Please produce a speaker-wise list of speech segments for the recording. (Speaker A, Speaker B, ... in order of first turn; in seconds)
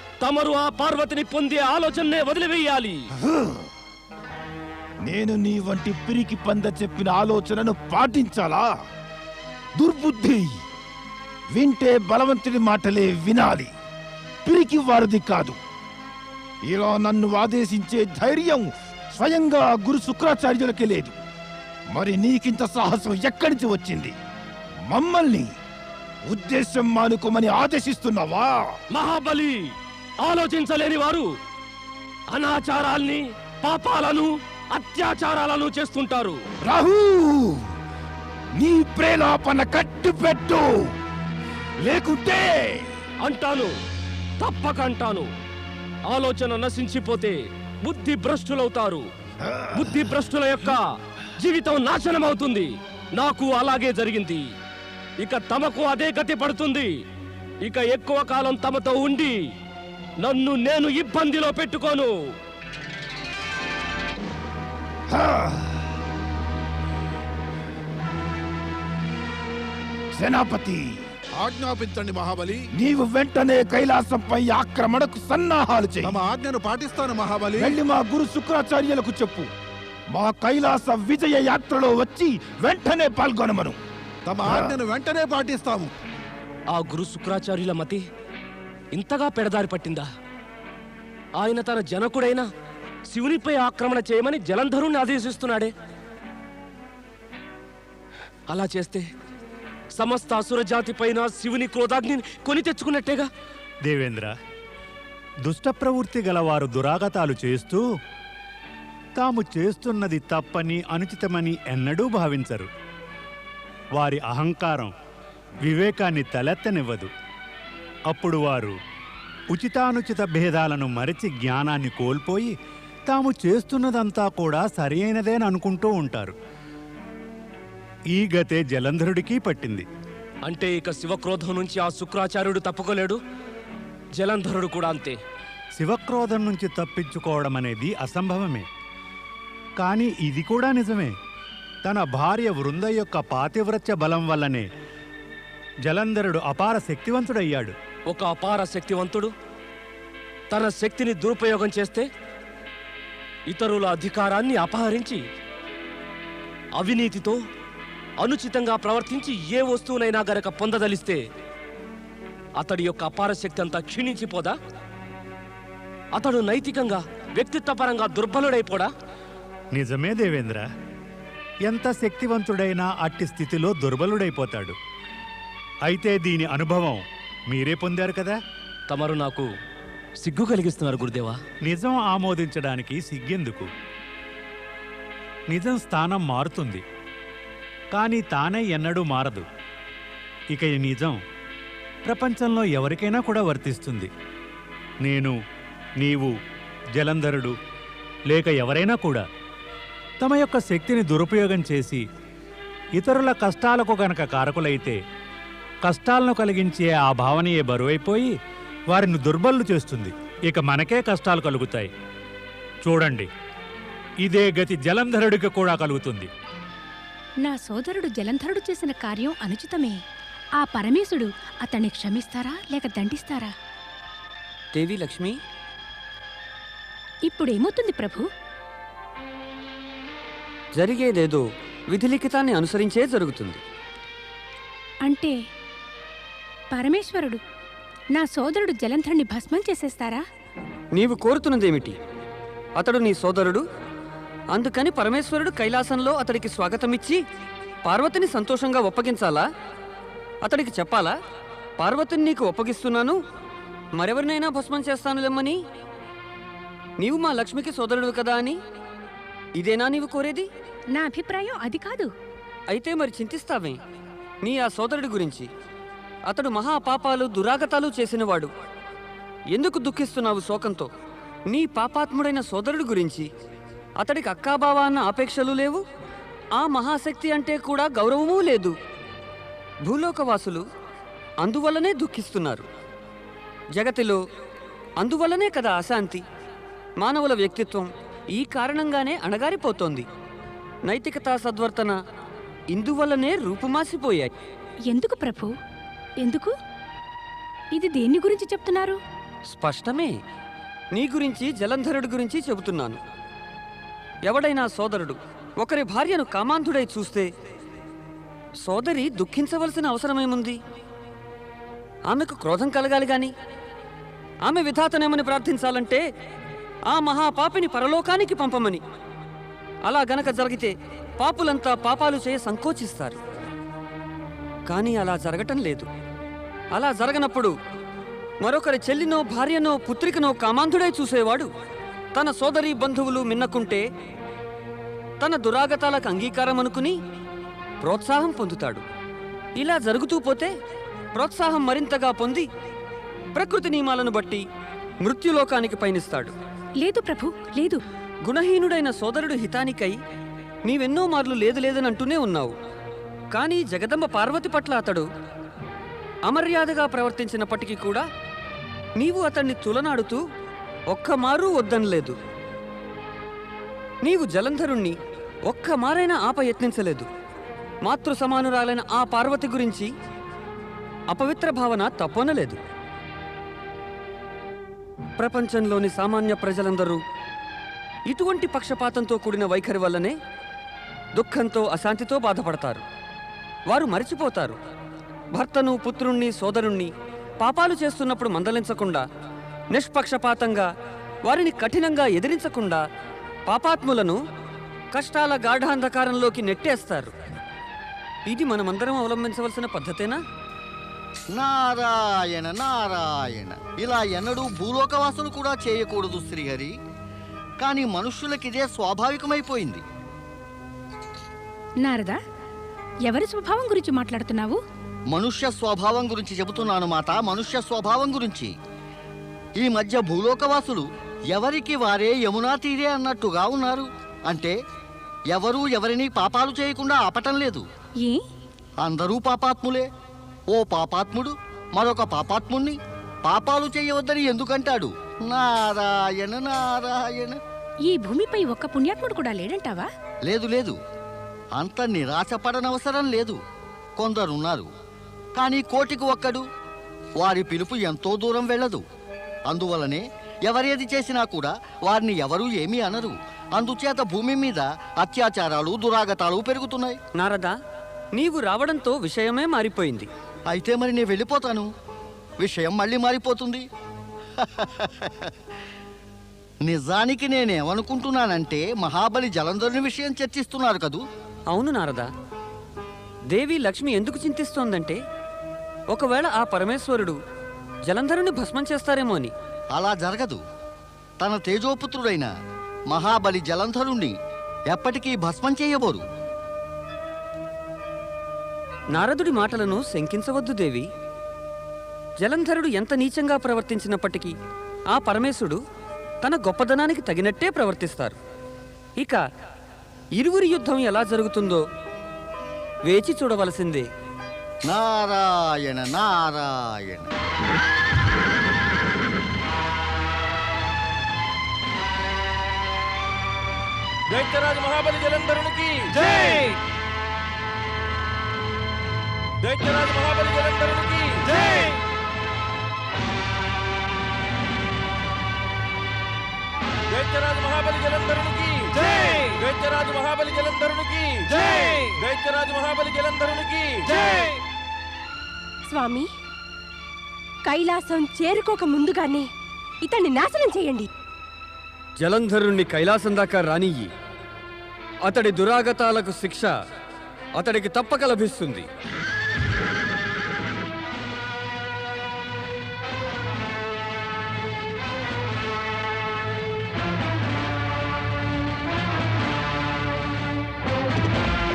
Speaker A: 0.2-3.0, 28.9-29.6, 30.2-31.3, 32.3-36.4, 43.2-43.7, 44.4-45.3, 46.1-49.0, 49.8-50.9, 51.4-54.4, 55.2-56.9, 57.6-59.4, 60.2-62.1, 86.7-88.0, 88.9-90.1, 91.4-92.5, 93.1-95.7, 98.5-99.1, 100.0-103.3, 130.5-133.2, 134.2-135.2, 148.1-149.3, 150.5-152.1, 153.5-155.2, 156.8-157.4, 158.2-161.2, 162.6-164.6, 166.2-168.9, 178.9-179.5, 180.2-181.4
Speaker B: 3.2-3.7, 5.1-8.7, 9.8-10.5, 11.5-13.7, 14.5-15.6, 16.7-21.2, 21.9-24.2, 24.9-25.5, 26.3-28.7, 36.7-37.7, 38.6-40.7, 41.8-42.9, 49.5-49.8, 65.1-65.8, 70.2-70.8, 72.8-76.1, 77.6-79.5, 80.1-83.8, 84.4-84.8
Speaker C: 71.4-72.7, 76.0-77.8, 84.3-85.9
Speaker D: 103.8-104.3, 105.4-107.8, 109.2-112.7, 114.0-114.9, 115.7-117.1, 118.1-118.8, 119.5-122.5, 123.1-126.3, 128.1-129.8, 135.8-138.7, 139.8-141.1, 141.8-144.7, 145.8-147.8, 169.7-170.7, 171.7-174.8, 175.9-178.4, 181.7-183.7, 185.5-186.8, 187.9-189.5, 190.5-191.2, 192.1-194.1, 195.0-195.4, 196.0-196.3, 197.0-197.5, 198.3-199.2, 200.2-202.0, 203.0-205.0, 205.9-208.3, 208.9-211.9, 212.8-213.3, 214.2-216.3
Speaker E: 217.4-220.0, 220.6-223.5, 227.3-228.2, 235.1-235.4, 236.7-237.4, 238.2-240.2, 260.9-262.1, 294.9-295.5, 296.2-296.5, 297.8-299.0, 346.8-347.8, 411.8-412.2, 413.1-414.6, 437.9-439.9
Speaker F: 224.8-225.4, 230.8-233.6, 241.0-241.9, 242.8-243.6, 244.5-247.2, 247.9-249.5, 250.4-251.2, 251.8-253.2, 254.0-255.6, 257.0-258.6, 259.6-260.5, 262.7-263.8, 264.4-265.5, 266.3-268.5, 269.5-270.9, 271.5-273.3, 274.0-275.8, 276.6-278.7, 279.9-280.6, 281.4-282.7, 283.8-284.2, 285.0-286.2, 287.0-290.1, 290.9-292.0, 292.7-294.3, 299.5-300.1, 300.9-303.0, 304.3-307.3, 308.6-310.6, 312.1-313.3, 314.5-316.0, 316.9-318.8, 319.9-323.2, 324.7-325.9, 326.8-327.5, 328.4-331.5, 332.1-333.9, 335.2-337.0, 337.8-338.8, 339.6-340.5, 341.2-342.5, 343.4-344.4, 345.0-346.3, 348.3-350.0, 350.7-352.5, 353.3-355.1, 356.3-358.1, 359.0-360.2, 360.9-362.2, 364.1-365.0, 365.5-367.1, 367.9-369.9, 371.1-372.6, 375.2-377.0, 378.1-380.1, 381.2-382.8, 383.7-384.6, 385.4-386.9, 387.4-389.0, 389.7-390.7, 391.3-392.8, 393.5-394.2, 394.9-397.1, 398.3-400.2, 457.2-457.6, 458.2-460.1, 471.5-472.1, 473.3-475.0, 475.9-477.2, 477.9-479.3, 488.9-490.9, 492.2-494.3, 494.9-495.6, 496.2-498.2, 500.2-501.6, 502.9-503.9, 542.0-543.9, 545.0-546.5, 547.4-548.7
Speaker G: 401.3-406.7, 407.6-409.8, 415.1-418.5, 419.6-424.6, 425.3-427.6, 428.8-429.9, 430.5-437.4, 440.3-440.8, 441.6-443.4, 444.0-444.7, 445.4-446.4, 447.2-448.8, 449.5-457.0, 460.5-461.7, 462.4-463.6, 464.4-465.3, 466.7-471.0, 479.8-480.4, 481.2-482.3, 482.9-484.1, 484.7-486.0, 504.7-507.1
Speaker H: 514.1-516.4, 519.4-521.8, 526.9-534.3
Speaker I: 535.7-536.1, 537.5-539.3, 539.8-540.9